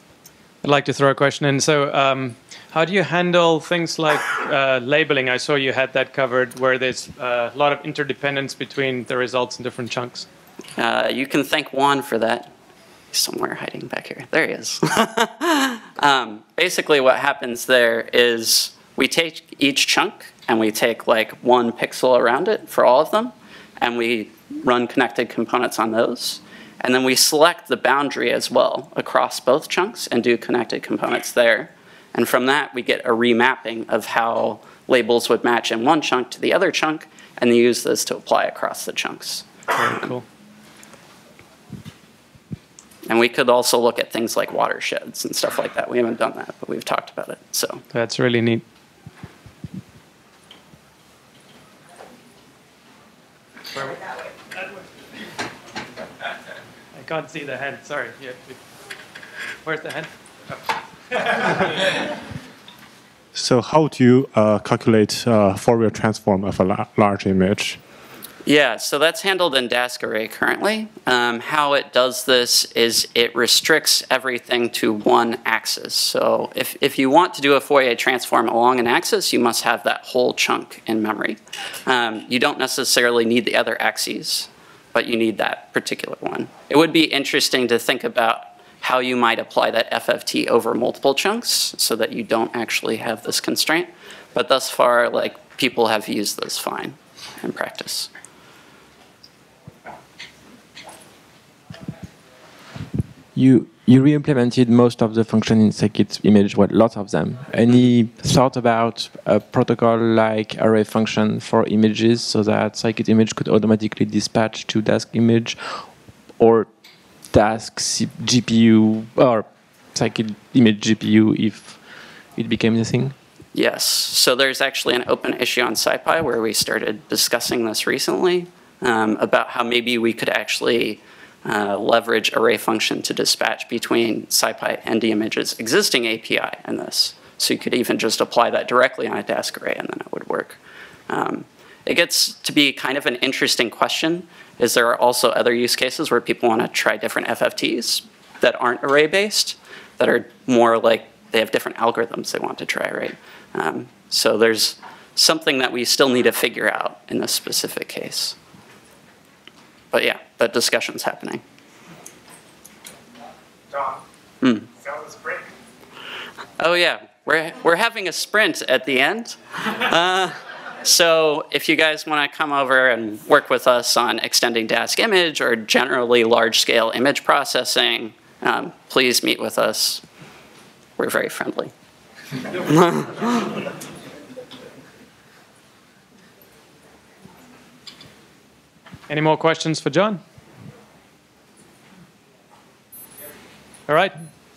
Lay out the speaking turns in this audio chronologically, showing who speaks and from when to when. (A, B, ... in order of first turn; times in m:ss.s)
0:00.6-0:10.3 A
0:10.8-0:12.5 B
0:13.1-0:39.5 B
0:39.7-0:40.2 A
0:43.1-0:47.8 B
0:47.9-0:48.6 A
0:53.8-0:54.0 A
0:57.0-0:58.6 A
0:59.6-1:00.1 A
1:03.4-1:07.8 C
1:08.4-1:38.1 B
1:43.4-1:55.9 D
1:56.4-1:56.7 D
1:57.3-2:01.8 D
2:02.4-2:03.2 D
2:03.5-2:38.4 B
2:39.9-2:41.4 B
2:44.4-2:44.7 B
2:46.6-3:00.0 B
3:01.0-3:01.7 B
3:02.7-3:03.5 B
3:09.1-3:10.2 A
3:13.9-3:14.2 A